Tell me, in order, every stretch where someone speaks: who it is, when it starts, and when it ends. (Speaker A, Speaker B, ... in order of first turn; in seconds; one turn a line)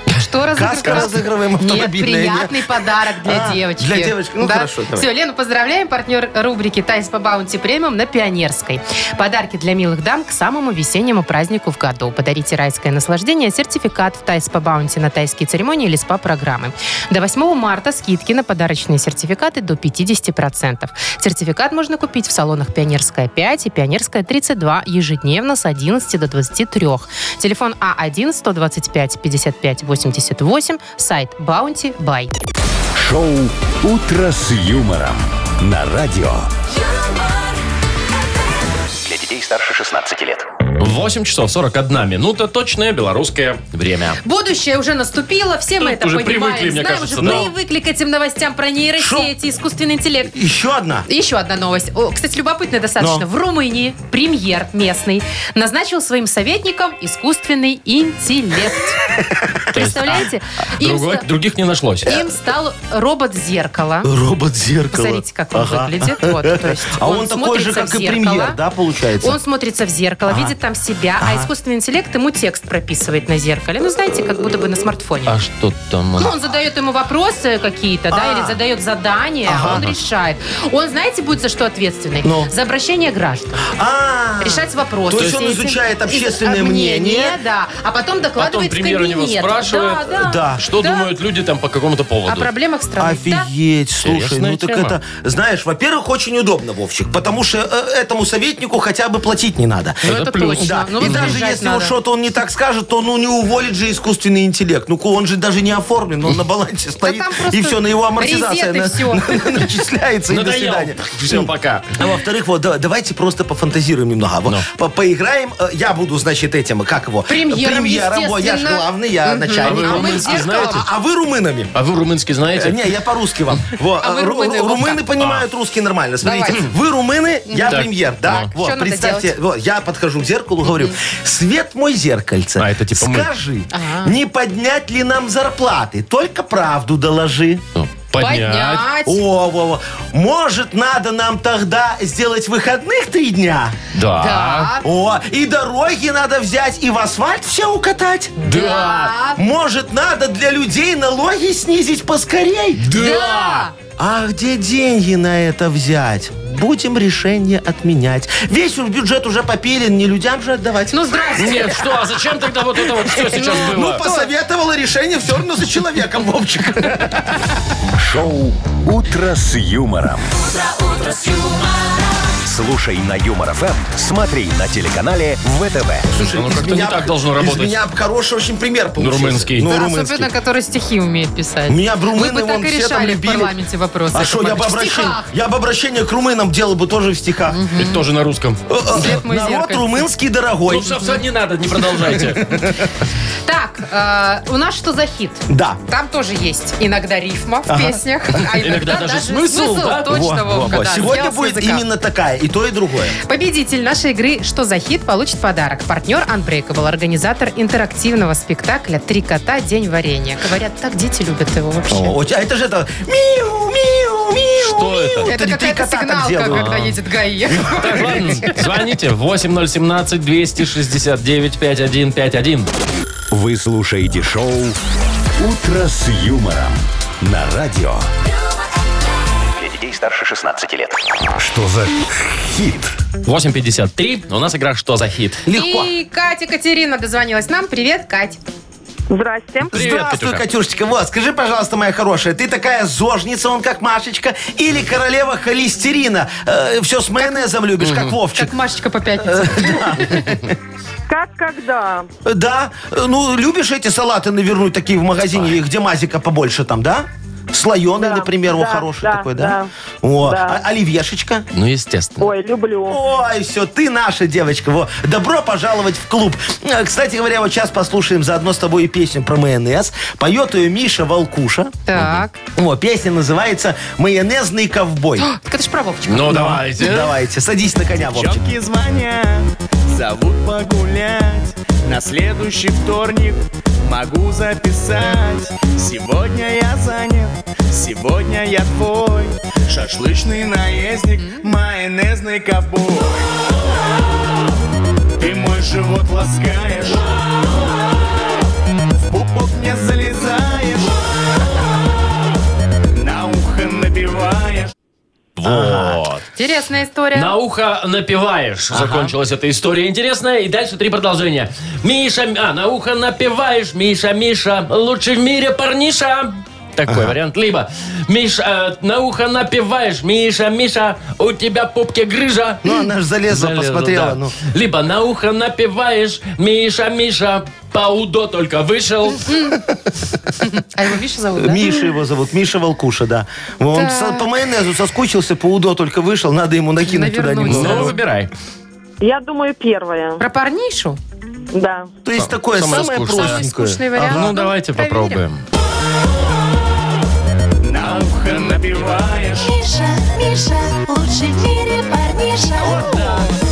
Speaker A: 0.1-32.3
Speaker B: 0.6-5.1
Speaker C: 33.0-36.5
Speaker D: 36.9-37.4
Speaker E: 39.0-40.5
Speaker F: 40.8-44.2
Speaker A: 44.2-50.3
Speaker F: 45.8-47.5
Speaker B: 47.2-47.5
Speaker B: 49.0-49.3
Speaker B: 50.3-51.1
Speaker A: 51.1-59.0
Speaker B: 53.0-53.3
Speaker B: 59.1-59.6
Speaker A: 59.7-61.2
Speaker F: 59.7-60.3
Speaker F: 60.8-62.2
Speaker A: 62.0-64.1
Speaker B: 64.0-69.4
Speaker A: 64.9-68.6
Speaker A: 69.2-75.3
Speaker B: 70.3-70.5
Speaker B: 71.2-71.5
Speaker F: 75.3-76.4
Speaker A: 76.2-83.7
Speaker B: 78.1-78.6
Speaker B: 79.5-79.8
Speaker F: 79.6-79.9
Speaker B: 82.2-82.5
Speaker B: 83.7-87.4
Speaker A: 84.4-91.1
Speaker F: 88.4-92.5
Speaker B: 90.2-90.7
Speaker A: 92.3-93.5
Speaker B: 93.0-121.7
Speaker F: 94.0-95.0
Speaker A: 100.0-101.9
Speaker F: 100.1-101.4
Speaker A: 107.0-109.4
Speaker F: 110.3-112.0
Speaker A: 117.3-120.9
Speaker F: 119.6-120.9
Speaker F: 121.8-122.9
Speaker B: 122.6-137.6
Speaker A: 124.0-125.0
Speaker F: 125.2-125.5
Speaker A: 126.2-126.7
Speaker A: 127.5-129.3
Speaker F: 127.7-128.5
Speaker A: 130.7-131.0
Speaker F: 132.6-133.3
Speaker A: 133.7-134.2
Speaker F: 137.8-138.9
Speaker A: 138.2-139.2
Speaker B: 139.1-143.8
Speaker F: 143.9-144.7
Speaker A: 144.2-144.8
Speaker B: 144.8-148.5
Speaker F: 148.4-149.2
Speaker A: 148.4-149.4
Speaker B: 149.4-152.9
Speaker F: 152.8-153.7
Speaker A: 152.9-153.7
Speaker B: 154.0-161.8
Speaker A: 160.9-161.8
Speaker F: 161.4-164.0
Speaker B: 162.8-167.5
Speaker A: 163.1-164.3
Speaker C: 168.0-170.3
Speaker D: 170.4-172.1
Speaker C: 172.4-176.1
Speaker B: 176.1-180.3
Speaker F: 176.2-177.8
Speaker F: 179.0-179.7
Speaker A: 179.6-185.3
Speaker B: 181.7-183.6
Speaker B: 184.1-187.6
Speaker A: 187.5-188.0
Speaker F: 187.8-189.1
Speaker B: 188.7-191.2
Speaker A: 188.9-190.1
Speaker F: 190.7-192.6
Speaker B: 192.0-192.9
Speaker A: 193.4-201.8
Speaker B: 195.5-195.8
Speaker B: 197.7-198.0
Speaker F: 198.5-201.1
Speaker B: 200.1-203.2
Speaker A: 203.2-212.2
Speaker B: 211.9-216.7
Speaker F: 214.6-215.3
Speaker A: 215.2-218.6
Speaker F: 216.5-217.0
Speaker F: 217.6-222.7
Speaker C: 223.3-224.8
Speaker C: 225.4-228.1
Speaker E: 229.6-231.0
Speaker C: 231.4-232.9
Speaker F: 233.2-235.4
Speaker B: 235.4-235.9
Speaker A: 235.5-238.4
Speaker G: 239.1-239.7
Speaker B: 239.7-248.5
Speaker F: 239.7-240.5
Speaker A: 247.2-247.5
Speaker F: 247.8-248.2
Speaker A: 248.3-250.4
Speaker B: 249.2-250.5
Speaker G: 251.1-251.8
Speaker B: 252.2-261.5
Speaker G: 258.0-259.6
Speaker F: 261.5-262.3
Speaker G: 262.2-262.9
Speaker B: 262.9-271.8
Speaker A: 271.9-272.4
Speaker F: 272.0-272.2
Speaker B: 272.6-275.3
Speaker A: 275.2-276.6
Speaker F: 276.1-277.1
Speaker B: 276.3-278.4
Speaker H: 278.0-293.3
Speaker A: 291.2-291.5
Speaker H: 295.2-297.1
Speaker H: 299.1-300.9
Speaker H: 303.0-304.7
Speaker F: 305.4-306.2
Speaker B: 305.4-306.0
Speaker A: 306.4-307.3
Speaker F: 307.1-322.7
Speaker B: 308.7-309.1
Speaker B: 316.9-317.1
Speaker B: 322.6-324.4
Speaker F: 323.3-329.4
Speaker A: 329.1-329.6
Speaker A: 330.4-331.9
Speaker B: 331.4-338.0
Speaker A: 333.8-334.3
Speaker A: 336.8-337.9
Speaker F: 337.5-338.3
Speaker G: 339.2-340.2
Speaker A: 340.2-341.0
Speaker G: 341.6-341.9
Speaker B: 342.1-344.4
Speaker F: 342.1-343.4
Speaker A: 342.7-345.2
Speaker F: 344.1-345.4
Speaker H: 347.6-349.6
Speaker D: 349.4-352.7
Speaker A: 352.6-353.2
Speaker B: 352.6-353.2